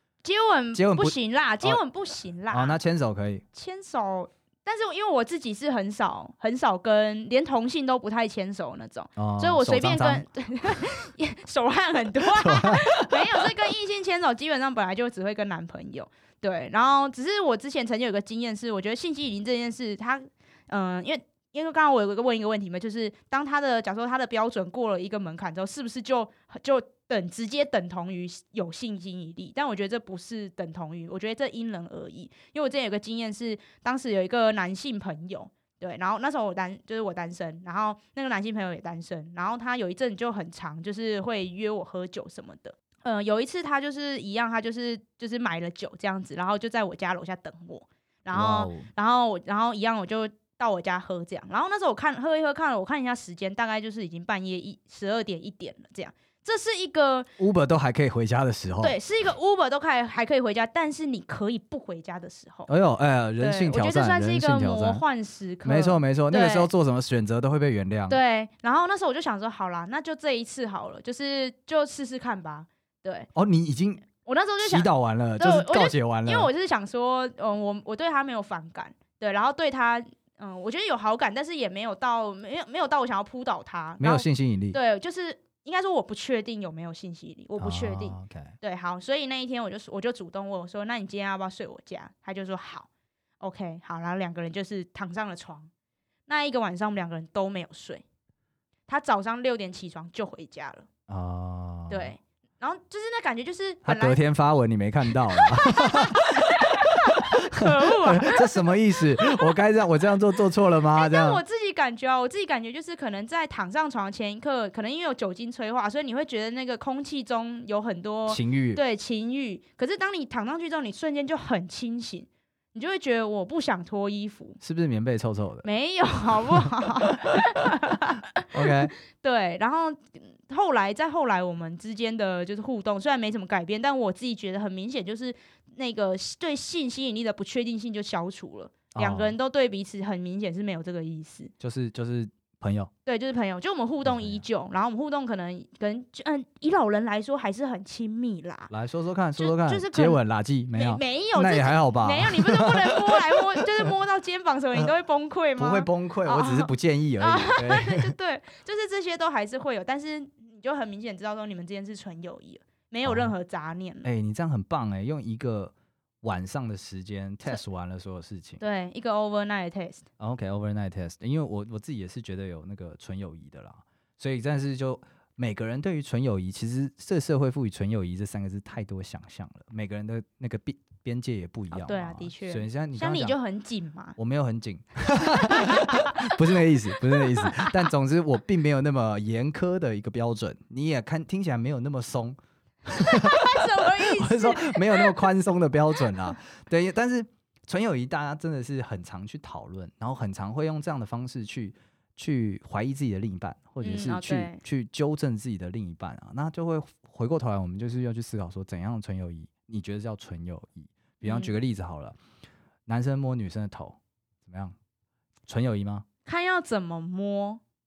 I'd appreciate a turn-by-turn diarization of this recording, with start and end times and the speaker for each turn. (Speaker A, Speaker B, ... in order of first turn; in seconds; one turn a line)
Speaker A: 0.2-2.8
Speaker B: 0.7-1.8
Speaker B: 2.5-3.4
Speaker A: 3.5-57.3
Speaker B: 9.2-10.2
Speaker B: 12.3-13.0
Speaker B: 48.3-48.9
Speaker B: 57.4-59.0
Speaker A: 58.8-62.7
Speaker B: 62.7-65.0
Speaker A: 63.4-66.7
Speaker B: 65.6-68.2
Speaker A: 68.1-73.3
Speaker B: 73.3-74.1
Speaker A: 74.2-92.9
Speaker B: 74.6-76.5
Speaker B: 84.0-84.8
Speaker B: 87.6-88.5
Speaker A: 93.4-95.7
Speaker A: 96.3-98.0
Speaker A: 98.9-100.9
Speaker B: 101.1-102.1
Speaker A: 101.9-104.2
Speaker B: 103.8-111.4
Speaker A: 105.3-108.7
Speaker A: 109.2-109.5
Speaker A: 110.9-124.6
Speaker B: 118.3-118.8
Speaker B: 124.6-125.7
Speaker A: 125.6-141.5
Speaker B: 126.5-127.7
Speaker B: 128.5-128.9
Speaker B: 138.9-139.3
Speaker B: 141.6-142.9
Speaker A: 143.1-148.7
Speaker B: 144.0-144.4
Speaker B: 148.7-153.8
Speaker A: 149.4-150.2
Speaker A: 150.7-164.1
Speaker B: 155.6-158.1
Speaker B: 163.0-163.3
Speaker B: 164.0-168.6
Speaker A: 168.6-170.0
Speaker B: 170.2-183.3
Speaker A: 181.7-184.2
Speaker B: 184.2-212.2
Speaker A: 185.3-186.4
Speaker A: 187.1-187.9
Speaker A: 193.0-195.2
Speaker A: 203.8-204.6
Speaker A: 211.2-211.5
Speaker B: 212.9-214.7
Speaker B: 215.5-216.1
Speaker A: 216.2-217.6